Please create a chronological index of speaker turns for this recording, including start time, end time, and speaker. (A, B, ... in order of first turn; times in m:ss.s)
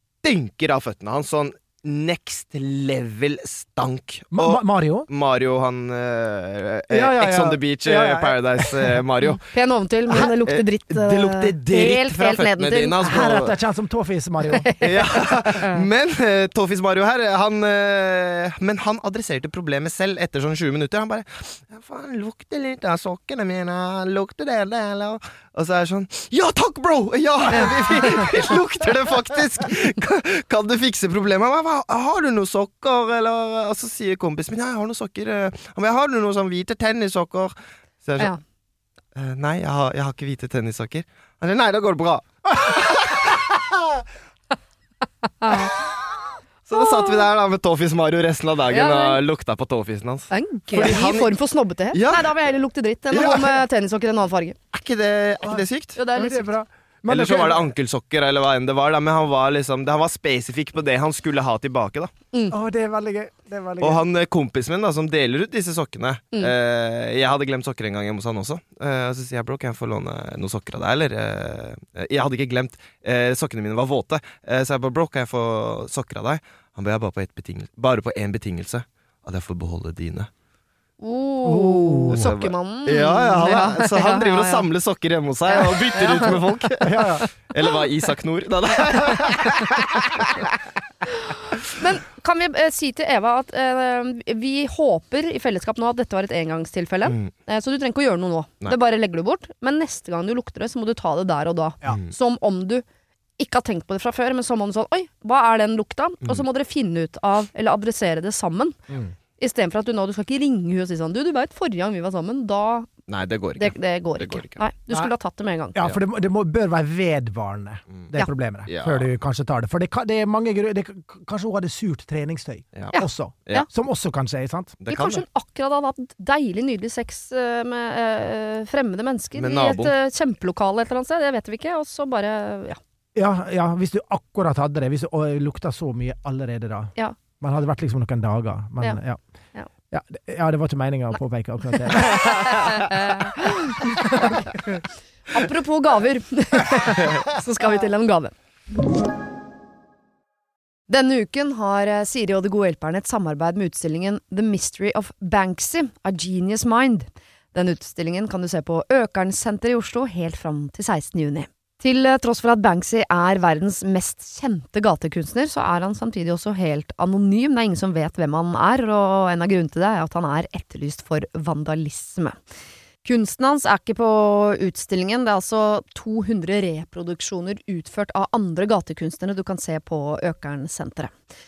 0:00.2-0:09.5 A
0:04.3-0:05.1 B
0:06.9-0:09.0 B
0:09.5-0:13.0 C
0:10.1-0:13.6 A
0:13.0-0:14.7 B
0:14.5-0:15.8 C
0:14.8-0:38.3 A
0:27.6-0:28.3 C
0:39.2-0:43.4 A
0:45.4-0:45.7 C
0:46.7-0:51.3 A
0:46.8-0:47.1 C
0:48.7-0:49.2 C
0:50.3-0:54.6 C
0:51.9-0:52.3 A
0:53.1-0:53.6 A
0:54.7-0:56.0 A
0:55.4-0:57.7 B
0:56.0-0:56.4 C
0:57.1-1:02.1 A
1:02.5-1:04.0 B
1:03.8-1:20.3 A
1:21.0-1:24.7 C
1:21.4-1:22.3 B
1:22.1-1:30.6 A
1:25.5-1:26.4 C
1:26.8-1:27.3 B
1:31.1-1:42.8 C
1:37.1-1:37.3 A
1:41.9-1:42.1 A
1:43.4-1:48.8 C
1:48.9-1:49.1 B
1:49.4-1:52.9 C
1:53.1-1:54.6 A
1:53.6-1:55.8 C
1:55.8-2:04.8 B
1:58.7-1:59.1 A
2:02.9-2:03.7 C
2:04.8-2:05.2 A
2:04.9-2:12.8 C
2:09.4-2:09.9 A
2:13.2-2:19.2 B
2:19.9-2:22.8 B
2:21.9-2:24.4 C
2:25.3-2:28.4 C
2:30.9-2:52.4 C
2:53.0-3:01.1 C